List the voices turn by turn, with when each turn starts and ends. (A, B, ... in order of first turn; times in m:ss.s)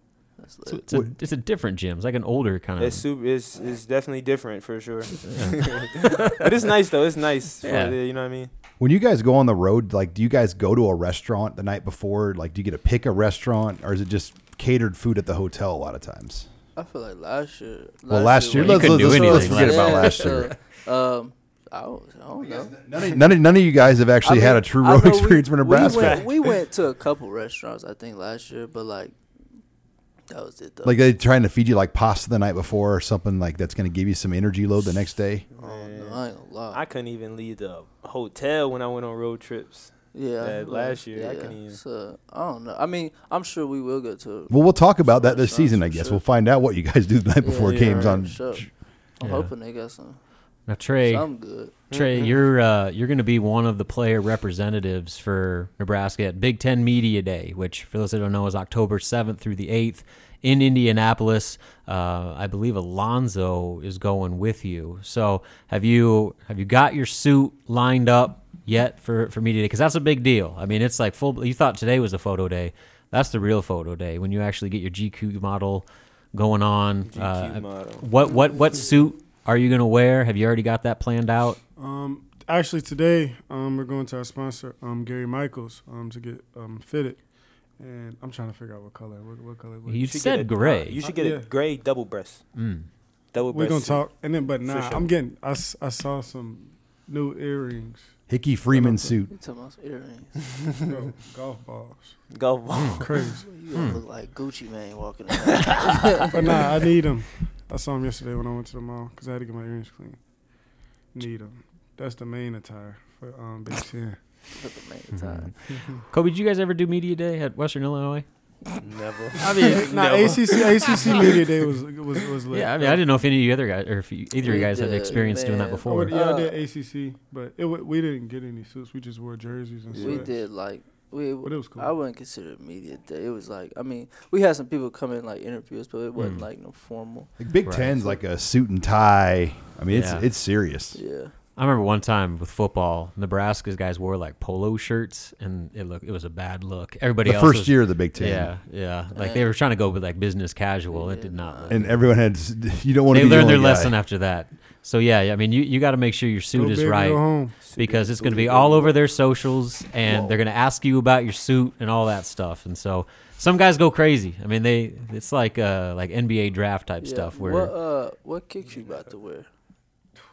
0:00.4-0:00.8 A
0:00.7-0:03.0 B
0:02.8-0:08.5 C
0:05.3-0:05.7 B
0:07.6-0:08.0 B
0:08.8-0:16.5 D
0:16.8-0:23.2 A
0:18.1-0:20.5 D
0:18.5-0:20.5 B
0:22.4-0:26.3 D
0:24.2-0:29.2 A
0:25.7-0:26.6 C
0:30.3-0:31.0 A
0:30.8-0:35.5 D
0:35.5-0:41.8 C
0:35.6-0:36.8 A
0:40.1-0:46.2 A
0:44.5-0:48.7 D
0:47.4-0:50.3 A
0:47.7-0:48.2 C
0:49.2-0:49.5 B
0:50.7-1:21.6 B
0:51.0-0:51.8 A
0:51.9-0:52.4 C
1:17.1-1:18.1 C
1:21.8-1:30.1 E
1:29.9-1:31.0 B
1:30.0-1:32.6 C
1:31.0-1:31.5 E
1:32.6-1:32.9 B
1:33.3-1:35.1 C
1:33.5-1:39.2 E
1:38.3-1:39.3 D
1:39.3-1:40.4 A
1:40.5-1:40.9 C
1:40.9-1:42.3 E
1:42.3-1:43.3 C
1:42.8-1:43.0 B
1:43.0-1:43.5 E
1:43.4-1:46.6 A
1:43.7-1:44.0 B
1:46.3-1:50.3 E
1:51.1-1:54.4 E
1:54.5-1:55.8 A
1:55.1-1:58.3 B
1:58.8-2:01.4 C
1:59.4-1:59.8 B
1:59.6-2:03.0 E
2:02.5-2:06.1 B
2:04.4-2:06.6 A
2:05.9-2:10.5 E
2:09.9-2:10.2 C
2:09.9-2:18.2 A
2:11.4-2:11.9 E
2:16.2-2:16.5 B
2:17.4-2:21.0 D
2:17.6-2:18.0 B
2:19.9-2:20.3 B
2:21.0-2:21.4 A
2:21.5-2:32.0 B
2:27.2-2:28.6 D
2:29.1-2:29.5 A
2:30.9-2:31.8 A
2:31.7-2:34.0 D
2:33.1-2:47.7 B
2:36.5-2:37.6 E
2:37.6-2:39.0 C
2:47.0-2:49.5 A